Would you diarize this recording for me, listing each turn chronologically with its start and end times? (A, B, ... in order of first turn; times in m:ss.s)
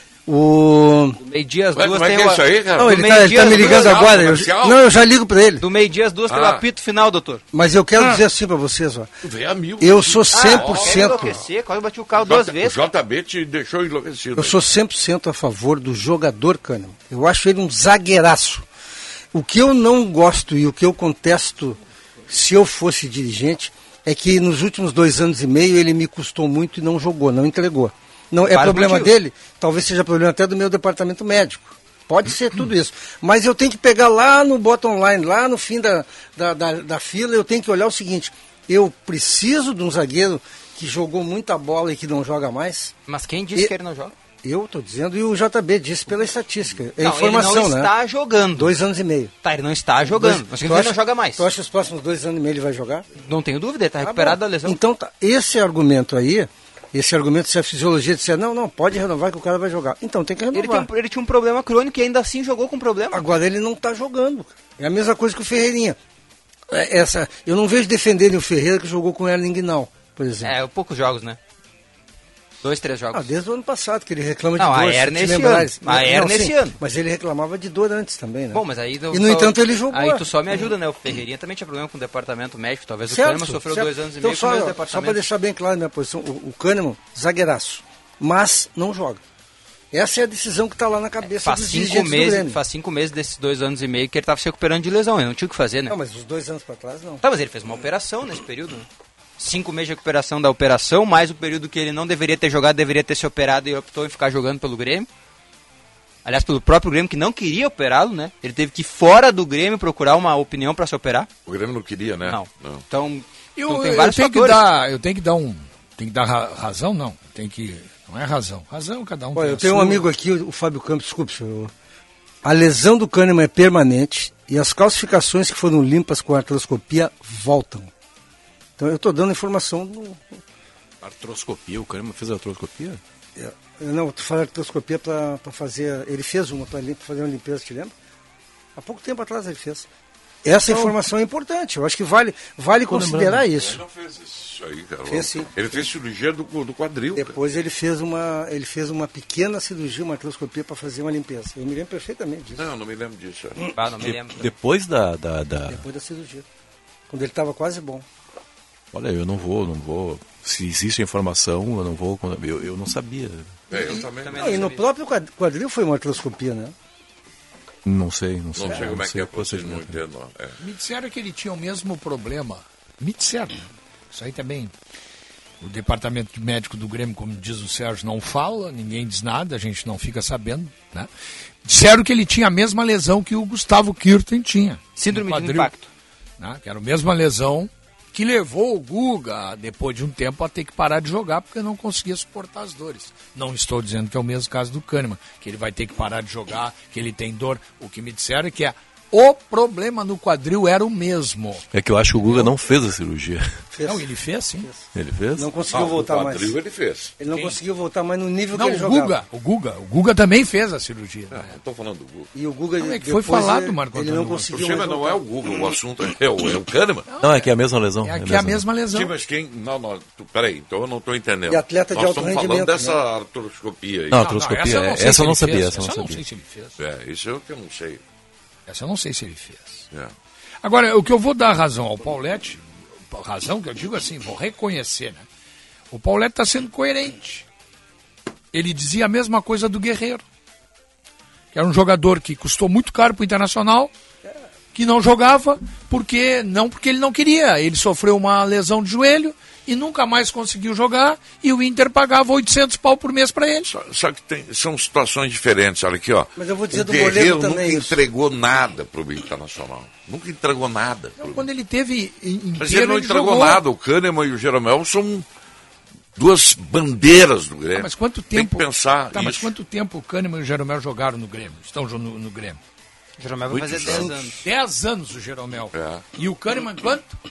0:00.2-0:01.2 A
0:01.2-0:04.2 B
0:01.7-0:04.8 C
0:02.8-0:05.6 A
0:05.6-0:07.4 B
0:06.3-0:06.6 C
0:07.5-0:09.1 A
0:09.2-0:11.5 C
0:09.8-0:11.4 A
0:10.3-0:12.8 B
0:12.2-0:14.6 C
0:14.4-0:18.6 A
0:19.3-0:42.9 A
0:28.5-0:29.1 B
0:43.1-0:44.1 B
0:44.4-0:47.9 A
0:47.0-0:48.8 B
0:48.5-0:49.3 A
0:49.4-0:51.4 B
0:50.0-0:53.0 A
0:53.2-0:54.8 B
0:54.0-1:00.9 A
1:00.5-1:03.2 B
1:03.1-1:06.0 A
1:06.7-1:10.5 A
1:10.4-1:11.4 B
1:12.6-1:13.3 B
1:13.1-1:20.6 A
1:14.6-1:16.8 B
1:18.5-1:25.2 B
1:23.1-1:29.2 A
1:29.9-1:32.6 A
1:31.4-1:36.0 B
1:35.9-1:37.2 A
1:37.2-1:38.9 B
1:39.4-1:45.1 B
1:46.2-1:51.3 B
1:51.4-1:52.8 C
1:52.2-1:54.6 B
1:53.6-2:00.0 D
1:59.3-2:01.7 A
2:02.4-2:07.9 A
2:08.8-2:10.4 A
2:11.0-2:13.0 E
2:13.4-2:17.9 A
2:18.8-2:19.9 A
2:20.4-2:23.8 A
2:22.9-2:23.4 E
2:23.5-2:27.4 C
2:25.1-2:25.5 A
2:27.1-2:32.7 A
2:32.5-2:33.7 C
2:33.7-2:34.4 B
2:34.0-2:35.8 E
2:35.7-2:36.4 A
2:37.1-2:38.0 A
2:38.9-2:43.6 E
2:43.7-2:44.6 C
2:43.8-2:46.7 A
2:43.9-2:44.8 B
2:47.8-2:50.0 E
2:48.6-2:50.6 C
2:50.6-2:54.7 D
2:55.6-3:01.1 D
3:01.6-3:05.7 D
3:05.0-3:05.9 B
3:06.4-3:21.6 D
3:21.7-3:23.4 E
3:23.7-3:24.0 A
3:23.8-3:24.7 D
3:24.6-3:26.6 A
3:24.9-3:25.5 E
3:25.7-3:27.1 C
3:27.2-3:29.2 A
3:28.5-3:31.5 D
3:31.3-3:32.3 C
3:32.3-3:35.2 A
3:32.8-3:34.5 D
3:34.5-3:37.1 C
3:37.1-3:39.1 D
3:37.2-3:38.6 E
3:38.9-3:44.2 C
3:41.5-3:43.0 A
3:44.1-3:46.2 E
3:44.2-3:46.8 D
3:46.8-3:48.0 C
3:48.7-3:49.8 D
3:50.6-3:52.6 D
3:53.1-3:55.2 D
3:55.9-3:57.4 D
3:58.5-4:00.2 D
4:01.5-4:03.9 D
4:04.7-4:13.7 D
4:13.7-4:21.4 C
4:16.4-4:18.0 A
4:21.2-4:23.6 D
4:22.6-4:25.2 C
4:26.2-4:29.5 C
4:27.7-4:32.6 D
4:33.2-4:34.4 B
4:33.5-4:34.2 C
4:34.4-4:37.2 D
4:35.7-4:36.0 C